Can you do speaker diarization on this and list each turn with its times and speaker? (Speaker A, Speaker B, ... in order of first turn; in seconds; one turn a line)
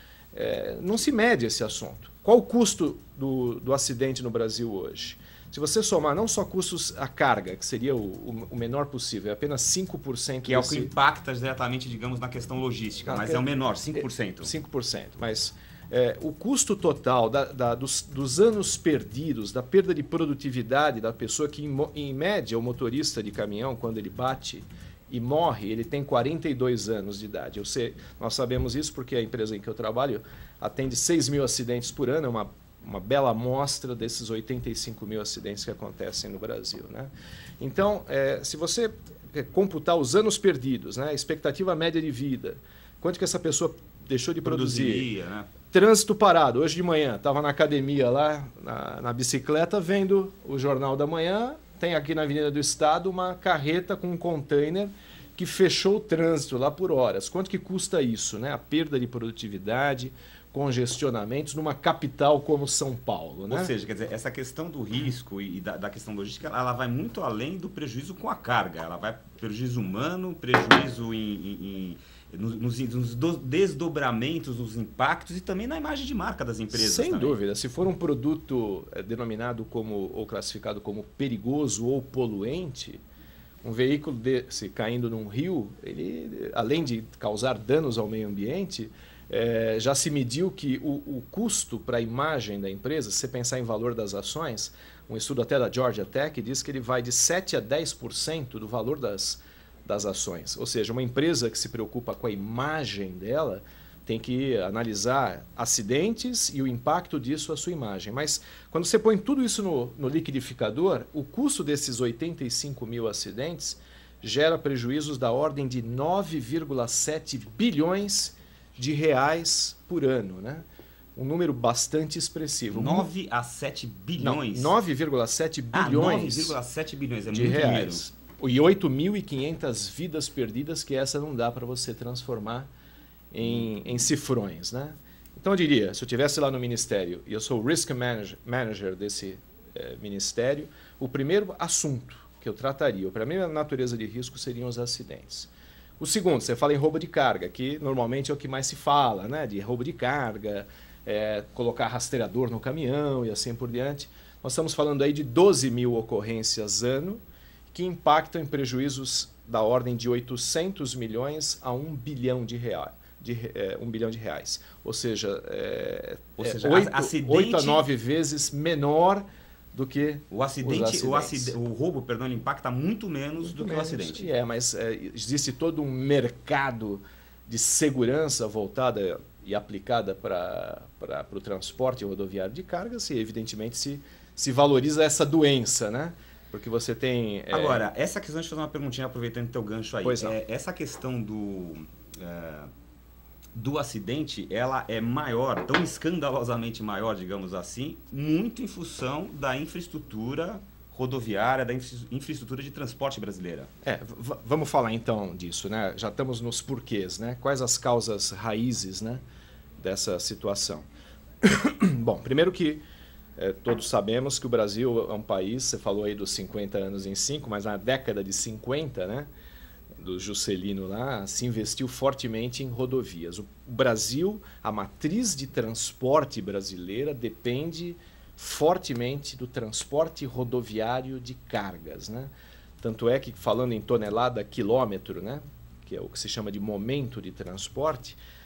Speaker A: 0.3-10.9
Speaker B: 10.4-14.5
Speaker A: 13.0-45.1
Speaker B: 44.4-45.5
Speaker A: 45.7-63.7
Speaker B: 63.5-77.4
Speaker A: 76.7-83.0
Speaker A: 83.6-120.6
Speaker A: 121.2-123.1
Speaker B: 122.7-124.7
Speaker A: 124.2-126.6
Speaker B: 125.7-128.1
Speaker A: 127.3-132.7
Speaker A: 133.3-171.6
Speaker B: 166.4-167.8
Speaker B: 170.3-174.3
Speaker A: 173.4-187.9
Speaker B: 187.5-192.7
Speaker A: 190.0-190.4
Speaker B: 193.6-203.7
Speaker A: 203.8-209.2
Speaker A: 209.8-210.9
Speaker A: 211.4-212.8
Speaker A: 213.4-219.3
Speaker A: 220.0-238.2